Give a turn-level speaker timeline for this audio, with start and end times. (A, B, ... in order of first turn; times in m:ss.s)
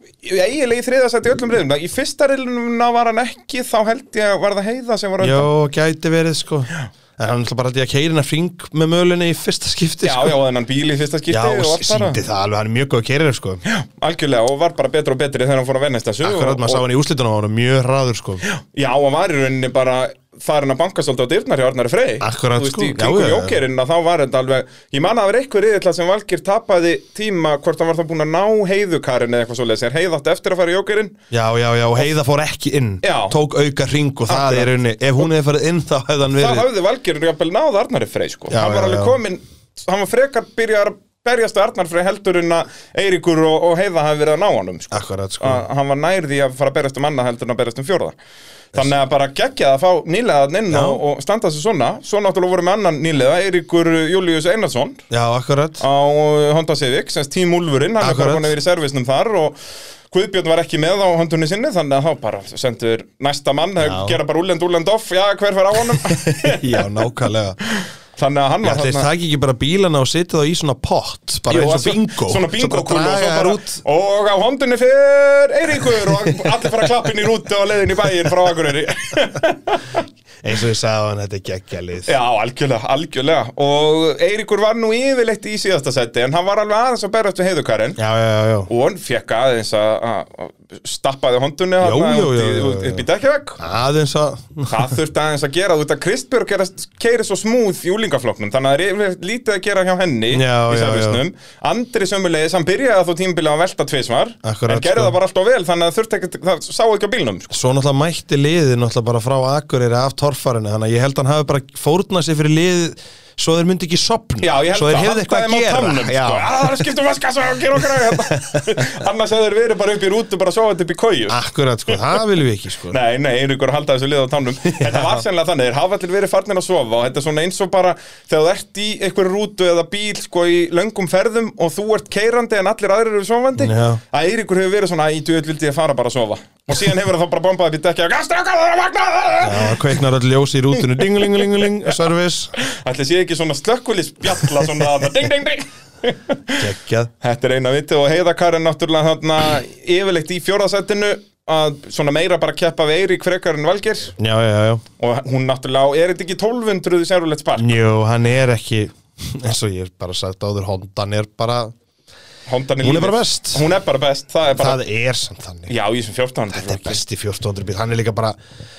0:00.2-0:05.5 A
0:05.2-0:10.4 B
0:10.0-0:12.2 A
0:11.3-0:13.6 B
0:13.6-0:16.8 A
0:16.2-0:18.4 B
0:18.4-0:31.2 A
0:22.2-0:23.6 B
0:31.3-0:36.7 B
0:33.0-0:33.4 A
0:34.3-0:34.7 A
0:36.3-0:48.2 A
0:38.5-0:39.2 B
0:44.9-0:45.6 B
0:48.7-0:55.0 A
0:50.7-0:51.0 B
0:55.1-0:55.8 B
0:55.8-0:59.6 A
0:58.0-0:58.5 B
1:00.1-1:06.8 A
1:03.8-1:04.2 B
1:05.9-1:07.6 B
1:07.7-1:09.1 A
1:08.6-1:13.8 B
1:11.5-1:20.0 A
1:16.0-1:16.3 B
1:20.4-1:22.1 B
1:22.0-1:28.0 A
1:28.0-1:28.7 B
1:28.7-1:33.6 A
1:31.8-1:33.0 B
1:33.6-1:34.9 B
1:34.7-1:47.5 A
1:40.3-1:41.2 B
1:44.4-1:45.1 B
1:47.5-1:56.9 B
1:54.4-2:01.4 A
1:57.8-1:58.8 B
2:01.3-2:03.0 B
2:01.9-2:02.2 A
2:02.9-2:20.0 A
2:04.6-2:05.2 B
2:13.6-2:14.0 B
2:19.4-2:22.5 B
2:21.0-2:21.9 A
2:22.6-2:26.6 A
2:26.6-2:27.1 B
2:27.2-2:34.1 A
2:34.2-2:34.8 B
2:35.0-2:37.8 A
2:37.6-2:41.7 B
2:42.5-2:44.8 A
2:42.8-2:43.6 B
2:44.6-2:45.7 B
2:45.7-2:47.0 A
2:46.5-2:48.4 B